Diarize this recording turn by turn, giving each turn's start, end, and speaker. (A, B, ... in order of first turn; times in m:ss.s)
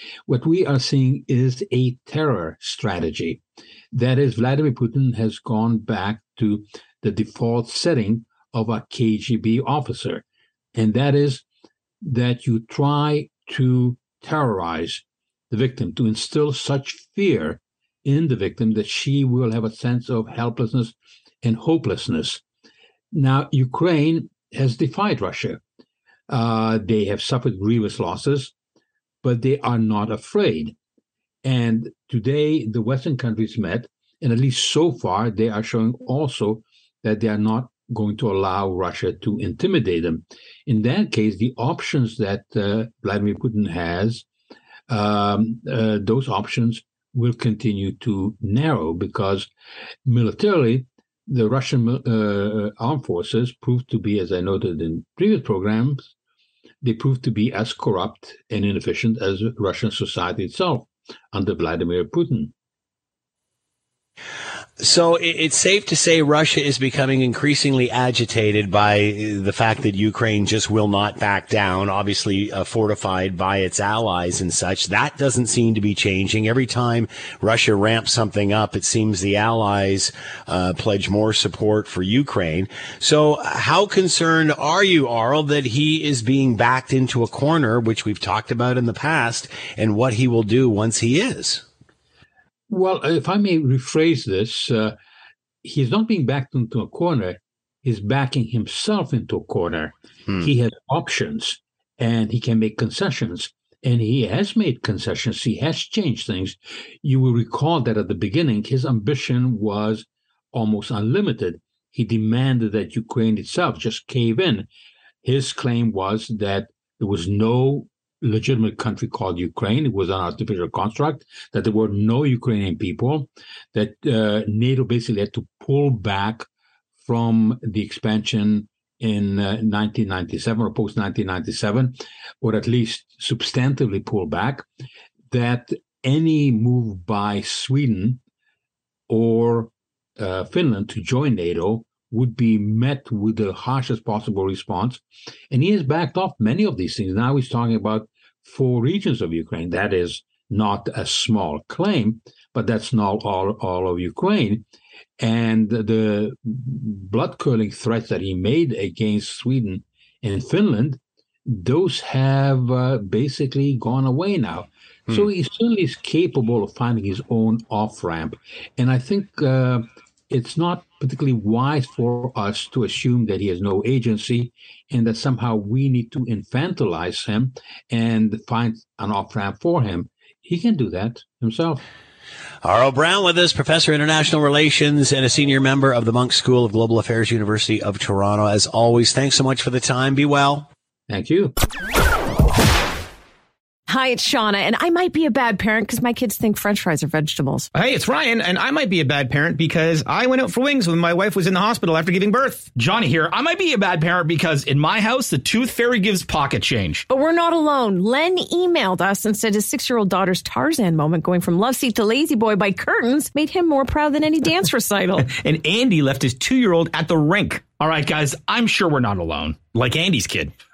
0:00.3-0:10.2 A
0:10.8-0:11.4 A
0:12.0-0:22.4 A
0:23.1-0:25.6 A
0:26.3-0:28.5 A
0:29.2-0:30.8 A
0:31.4-0:44.2 A
0:44.9-0:49.5 A
0:50.0-0:56.1 A
0:56.8-1:02.5 A
1:04.8-1:31.6 B
1:32.7-1:34.9 A
1:35.6-1:54.7 A
1:55.2-2:06.5 A
2:07.0-2:14.6 A
2:15.3-2:18.2 A
2:19.1-2:34.6 A
2:35.2-3:01.8 A
3:02.6-3:10.7 B
3:11.1-3:11.5 A
3:13.9-3:17.7 C
3:17.8-3:22.7 D
3:22.7-3:27.0 E
3:27.1-3:35.3 C
3:35.4-3:37.6 D
3:35.5-3:40.5 E